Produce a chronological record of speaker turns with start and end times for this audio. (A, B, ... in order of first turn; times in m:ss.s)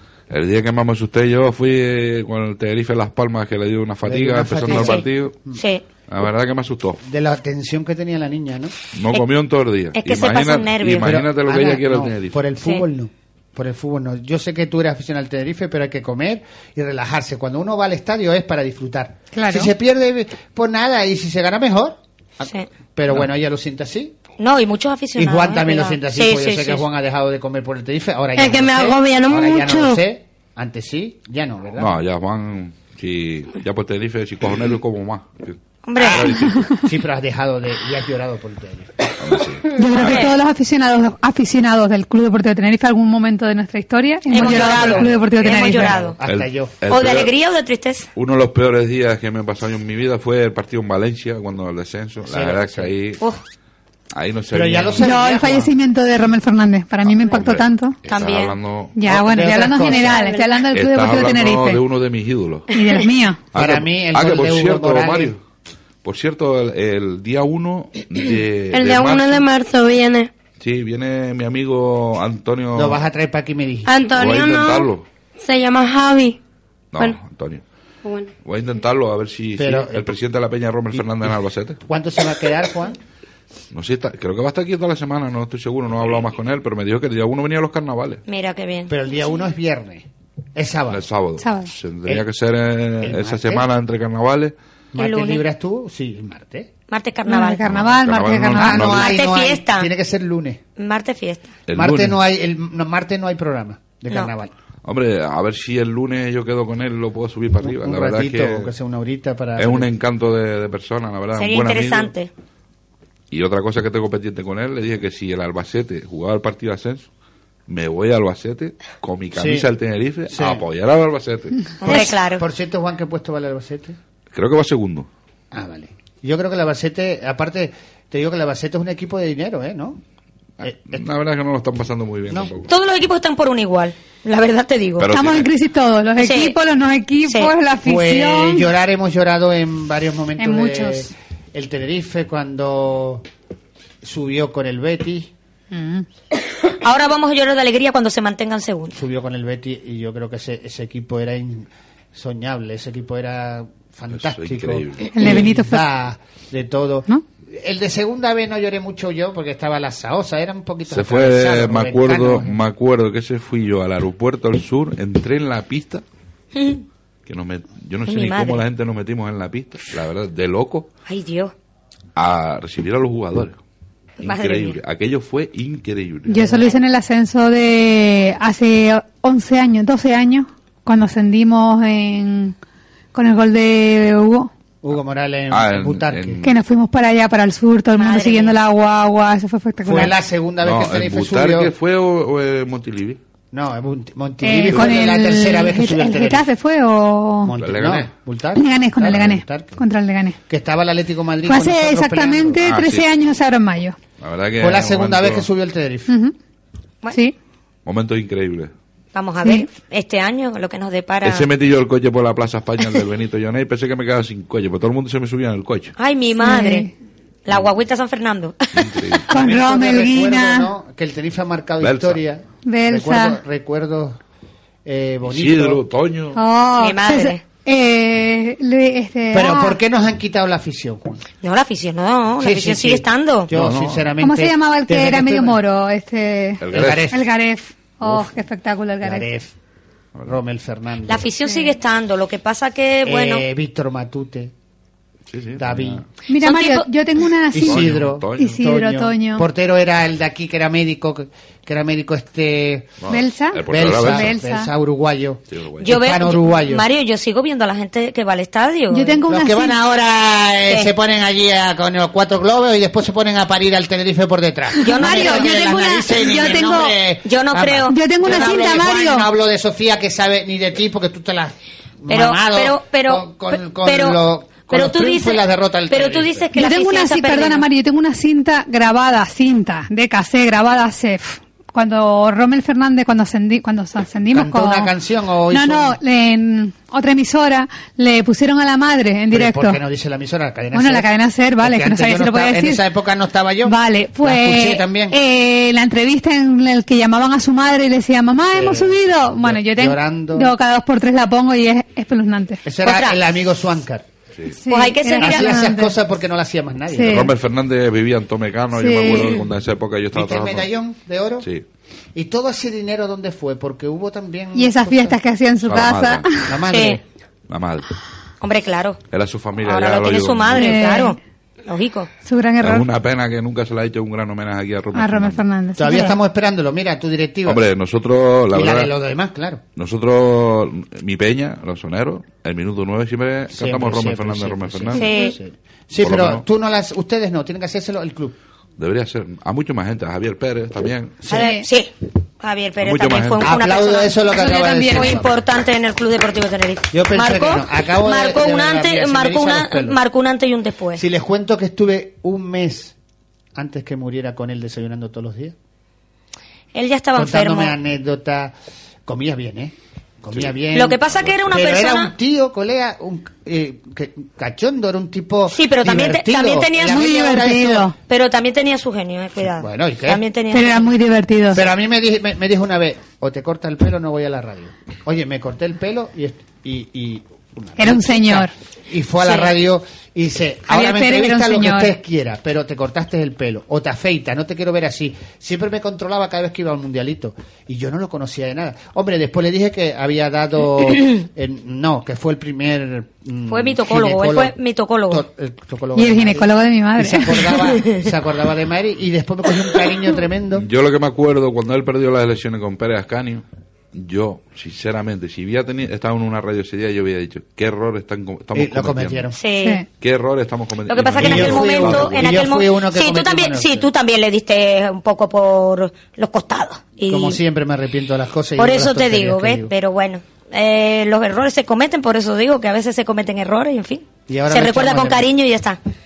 0:00.3-0:05.3 A
0:04.0-0:05.6 B
0:04.7-0:05.8 C
0:06.1-0:07.0 A
0:07.0-0:08.7 B
0:08.9-0:12.4 A
0:09.9-0:11.2 C
0:11.0-0:24.2 B
0:19.3-0:19.7 D
0:24.4-0:26.8 C
0:25.2-0:32.0 B
0:28.4-0:30.0 E
0:31.8-0:36.7 A
0:35.8-0:36.4 C
0:36.0-0:39.1 B
0:39.2-0:40.3 A
0:39.7-0:46.1 D
0:40.0-0:40.3 C
0:44.3-0:46.2 C
0:44.3-0:46.7 B
0:46.2-0:47.3 A
0:46.9-0:48.1 C
0:48.1-0:53.2 A
0:52.2-0:52.9 B
0:54.1-0:55.1 A
0:54.5-0:55.7 B
0:55.0-0:58.0 D
0:57.2-0:59.0 A
0:58.1-0:58.5 C
0:58.9-1:01.8 D
0:59.0-1:00.3 B
1:00.0-1:00.5 E
1:00.7-1:02.7 A
1:02.7-1:03.4 D
1:03.5-1:05.4 A
1:03.5-1:05.3 B
1:06.0-1:09.4 A
1:08.7-1:10.3 E
1:10.6-1:13.0 A
1:12.7-1:13.9 B
1:13.8-1:16.4 E
1:14.1-1:15.0 A
1:16.9-1:17.6 A
1:18.0-1:18.3 E
1:18.4-1:21.8 A
1:19.6-1:20.2 B
1:20.9-1:23.0 B
1:23.7-1:28.2 A
1:28.3-1:28.9 C
1:28.9-1:31.0 B
1:30.9-1:34.5 A
1:31.4-1:31.7 D
1:33.0-1:33.7 B
1:34.9-1:36.7 B
1:34.9-1:35.4 C
1:36.9-1:37.7 C
1:37.3-1:39.0 D
1:37.7-1:39.1 A
1:38.5-1:40.6 B
1:38.7-1:39.9 C
1:40.8-1:41.5 C
1:41.7-1:42.2 A
1:41.7-1:44.5 B
1:44.8-1:48.7 A
1:47.6-1:49.9 B
1:49.6-1:52.1 A
1:51.4-1:52.3 C
1:53.3-1:57.1 A
1:57.7-2:01.6 A
1:59.3-1:59.7 B
2:00.3-2:00.6 B
2:01.8-2:02.4 C
2:01.8-2:04.0 B
2:04.3-2:05.1 A
2:05.5-2:10.0 B
2:10.6-2:11.0 B
2:10.9-2:12.7 A
2:12.7-2:15.1 C
2:15.0-2:15.5 A
2:15.1-2:18.7 D
2:16.2-2:16.5 C
2:17.3-2:17.5 C
2:17.8-2:23.2 B
2:20.4-2:21.1 D
2:24.0-2:25.3 B
2:25.7-2:26.0 D
2:26.8-2:29.0 C
2:28.9-2:42.6 B
2:34.1-2:35.4 A
2:35.1-2:35.8 D
2:40.9-2:46.0 A
2:46.5-2:46.8 C
2:47.2-2:50.9 A
2:48.0-2:48.6 C
2:51.1-2:51.5 C
2:52.2-2:53.6 A
2:54.2-2:56.6 A
2:54.2-2:54.8 C
2:56.3-3:02.6 D
3:03.1-3:04.5 D
3:04.8-3:06.4 B
3:05.5-3:06.6 A
3:06.4-3:10.1 D
3:08.0-3:08.6 C
3:09.8-3:11.7 B
3:10.6-3:13.2 A
3:13.5-3:16.5 B
3:14.4-3:17.6 D
3:17.4-3:19.8 B
3:17.6-3:18.1 A
3:18.5-3:20.4 D
3:20.5-3:22.6 B
3:21.4-3:24.0 D
3:22.6-3:23.1 A
3:24.2-3:25.5 A
3:24.6-3:26.1 B
3:26.1-3:26.3 D
3:27.8-3:28.7 A
3:29.1-3:31.5 C
3:31.2-3:35.9 A
3:36.0-3:36.9 C
3:36.4-3:36.9 D
3:37.4-3:39.1 C
3:38.8-3:39.3 A
3:39.3-3:40.7 D
3:39.3-3:44.2 B
3:41.8-3:42.2 A
3:42.6-3:43.4 D
3:44.8-3:45.8 B
3:45.2-3:46.4 A
3:46.3-3:49.8 D
3:46.8-3:47.4 C
3:49.3-3:51.2 B
3:51.4-3:53.5 C
3:52.4-3:55.6 B
3:53.5-3:54.1 A
3:54.2-3:59.2 D
3:56.6-3:57.1 A
3:56.7-3:57.2 B
3:59.0-3:59.5 B
4:00.2-4:01.2 B
4:01.1-4:03.4 C
4:01.4-4:01.7 D
4:03.0-4:04.5 B
4:05.3-4:06.0 A
4:05.6-4:06.0 B
4:06.3-4:09.4 D
4:06.4-4:06.9 C
4:07.5-4:13.0 B
4:07.6-4:08.5 A
4:13.0-4:14.3 A
4:13.1-4:14.7 D
4:13.6-4:16.9 B
4:15.5-4:16.1 A
4:15.8-4:19.2 C
4:18.9-4:19.8 D
4:19.3-4:36.5 B
4:20.7-4:20.9 C
4:24.8-4:26.9 D
4:24.8-4:28.8 C
4:27.9-4:29.3 D
4:32.1-4:37.6 C
4:36.5-4:44.9 D
4:44.3-4:46.0 B
4:45.5-4:49.8 D
4:49.3-4:51.1 B
4:50.7-4:52.8 D
4:51.6-4:55.2 B
4:53.6-5:02.6 D
4:58.5-5:00.5 B
5:02.6-5:04.1 B
5:02.8-5:03.2 C
5:04.6-5:05.9 D
5:04.7-5:05.7 C
5:05.2-5:07.3 B
5:06.9-5:07.3 D
5:07.1-5:10.7 A
5:08.8-5:09.2 D
5:10.1-5:11.5 B
5:12.1-5:15.2 B
5:14.5-5:16.5 D
5:15.6-5:16.3 A
5:16.4-5:17.0 B
5:16.7-5:17.0 C
5:17.5-5:17.9 A
5:18.4-5:19.0 C
5:19.1-5:20.9 A
5:19.6-5:22.1 C
5:20.5-5:21.2 D
5:22.2-5:22.8 D
5:22.6-5:25.4 A
5:24.9-5:26.2 D
5:25.8-5:27.6 B
5:27.4-5:28.9 A
5:28.5-5:29.6 B
5:29.8-5:35.1 A
5:33.5-5:38.4 B
5:34.9-5:35.4 C
5:36.0-5:36.4 A
5:38.8-5:41.2 A
5:41.2-5:41.5 B
5:41.3-5:51.0 C
5:41.3-5:41.6 D
5:42.8-5:43.5 A
5:43.4-5:45.3 B
5:44.2-5:45.2 D
5:46.9-5:50.0 B
5:50.9-5:52.9 B
5:53.5-5:55.6 B
5:56.7-5:57.7 C
5:57.1-5:58.5 B
5:59.0-6:07.9 B
6:00.7-6:02.1 C
6:05.5-6:07.4 C
6:06.8-6:07.9 D
6:08.0-6:10.9 C
6:09.5-6:10.2 B
6:10.5-6:11.6 D
6:11.5-6:34.6 B
6:17.8-6:18.5 D
6:19.2-6:19.5 C
6:20.7-6:21.9 D
6:33.5-6:35.2 C
6:35.1-6:40.6 B
6:36.0-6:37.7 D
6:40.5-6:49.3 A
6:48.5-6:49.4 B
6:49.4-6:49.8 C
6:49.6-6:49.8 D
6:50.0-6:52.4 A
6:50.9-6:57.4 C
6:51.1-6:53.9 B
6:57.1-6:59.7 B
6:58.6-7:05.8 C
7:04.3-7:05.3 B